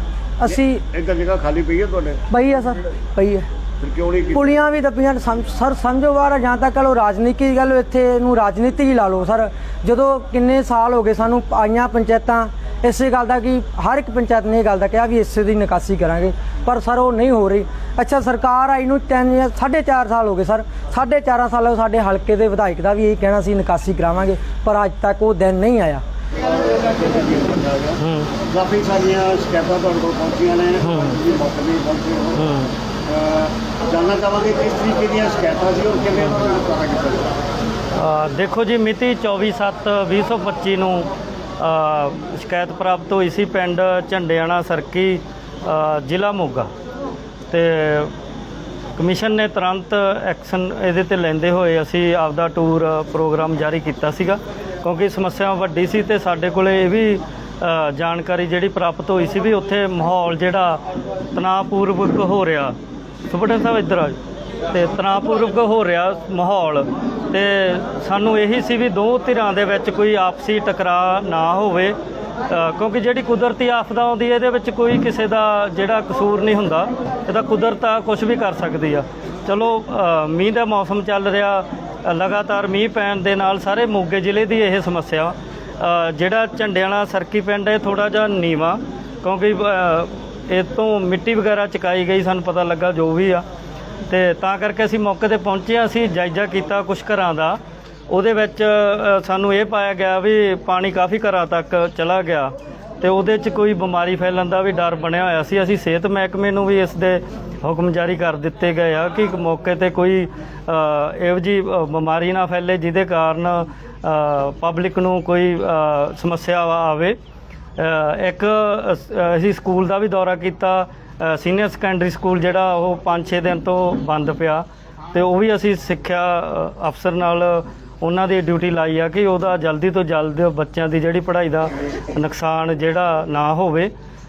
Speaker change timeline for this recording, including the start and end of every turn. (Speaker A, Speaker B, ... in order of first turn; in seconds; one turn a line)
Speaker A: 0.4-0.8
Speaker B: 0.4-2.2
Speaker A: 2.3-3.5
Speaker B: 3.8-4.7
Speaker A: 4.3-26.0
Speaker B: 26.4-32.4
Speaker C: 28.0-28.3
Speaker C: 30.8-31.2
Speaker C: 32.4-32.7
Speaker B: 33.0-37.4
Speaker C: 37.9-41.1
Speaker C: 41.6-46.7
Speaker C: 47.5-48.1
Speaker C: 49.0-60.8
Speaker C: 61.3-62.8
Speaker C: 63.3-64.2
Speaker C: 64.7-72.0
Speaker C: 72.5-93.4
Speaker C: 94.1-97.6
Speaker C: 98.1-117.2
Speaker C: 117.8-133.9